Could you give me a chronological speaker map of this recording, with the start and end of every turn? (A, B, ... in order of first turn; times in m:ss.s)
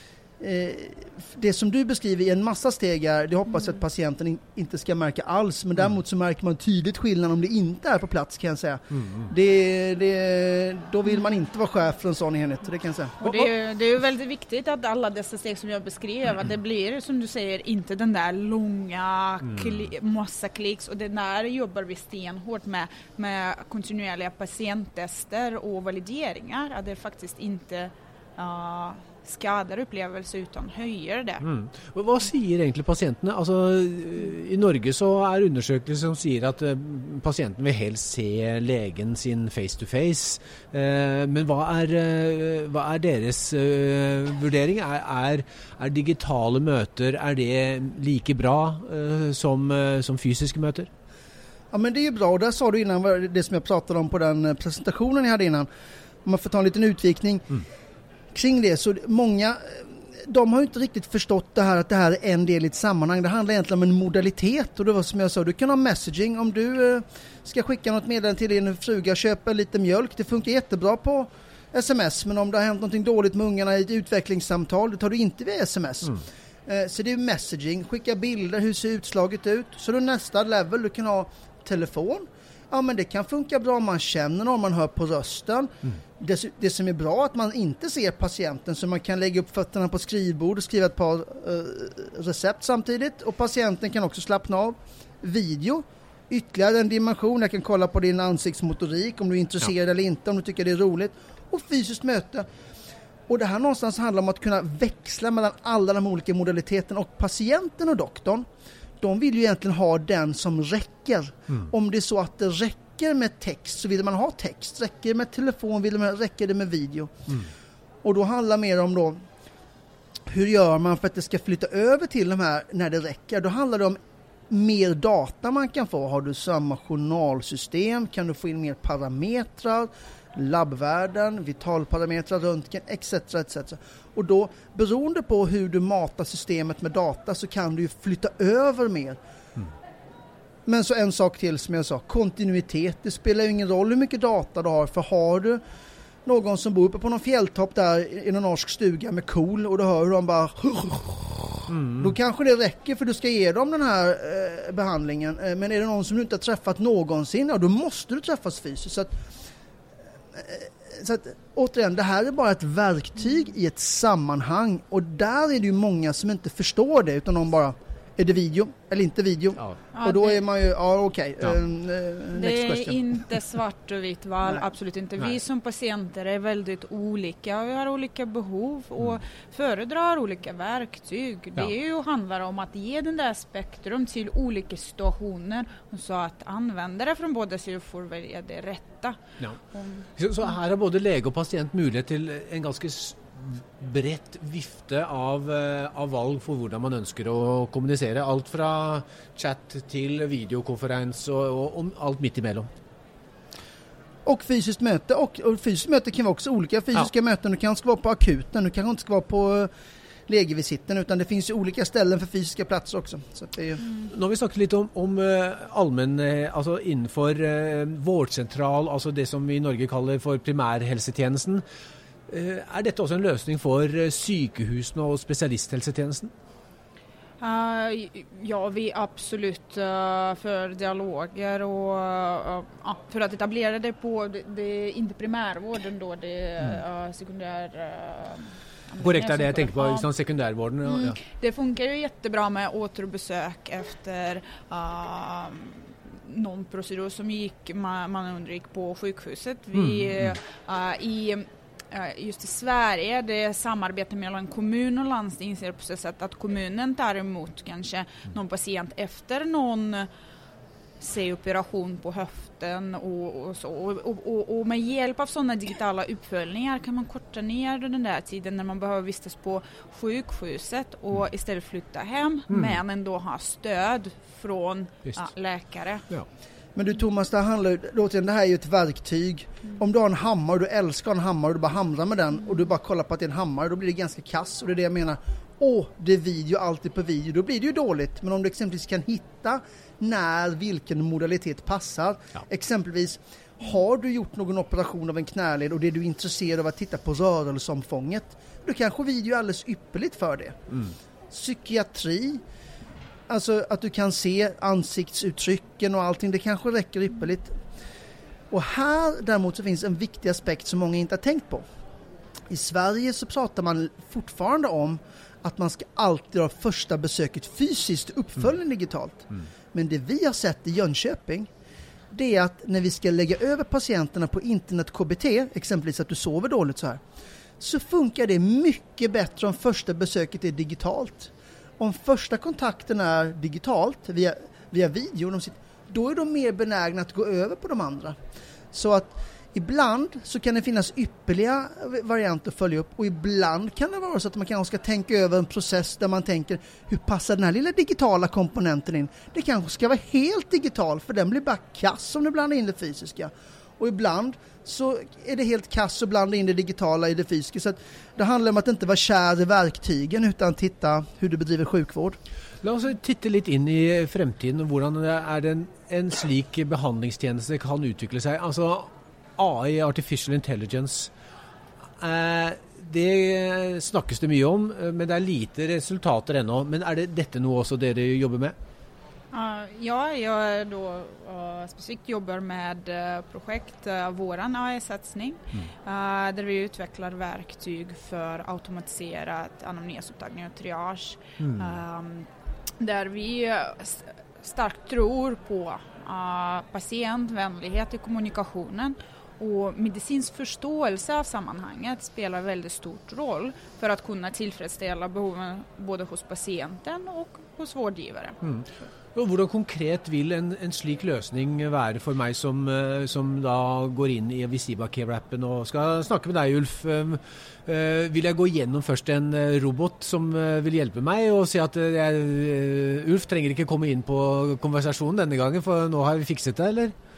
0:00.4-0:13.3 A
0:13.2-0:31.4 B
0:31.4-0:50.9 C
0:51.7-0:55.7 A
0:56.2-0:57.6 A
0:58.3-1:42.4 A
1:43.3-1:48.4 A
1:49.0-1:57.1 A
1:58.0-1:59.2 A
2:00.3-2:04.0 A
2:04.5-2:19.2 A
2:20.6-2:25.6 A
2:26.2-2:39.1 A
2:31.7-2:32.1 C
2:40.3-2:53.0 A
2:49.9-2:50.4 B
2:52.3-3:09.2 B
3:09.7-3:10.1 B
3:10.2-3:22.7 C
3:24.2-3:29.7 A
3:30.3-3:33.8 A
3:34.1-3:41.6 C
3:42.3-3:46.3 C
3:47.4-4:00.1 B
3:59.0-4:01.2 C
4:00.8-4:20.1 B
4:09.7-4:10.4 C
4:21.0-4:36.0 B
4:32.5-4:32.8 C
4:36.7-5:00.6 A
5:01.3-5:02.4 A
5:03.3-5:07.5 A
5:08.5-5:11.6 A
5:12.5-5:21.5 A
5:22.1-5:27.0 A
5:27.6-5:38.2 A
5:38.7-6:02.2 A
6:02.6-6:11.1 C
6:12.0-6:18.5 C
6:19.3-6:32.3 B
6:31.4-6:31.8 C
6:32.8-6:48.4 B
6:48.4-7:06.9 C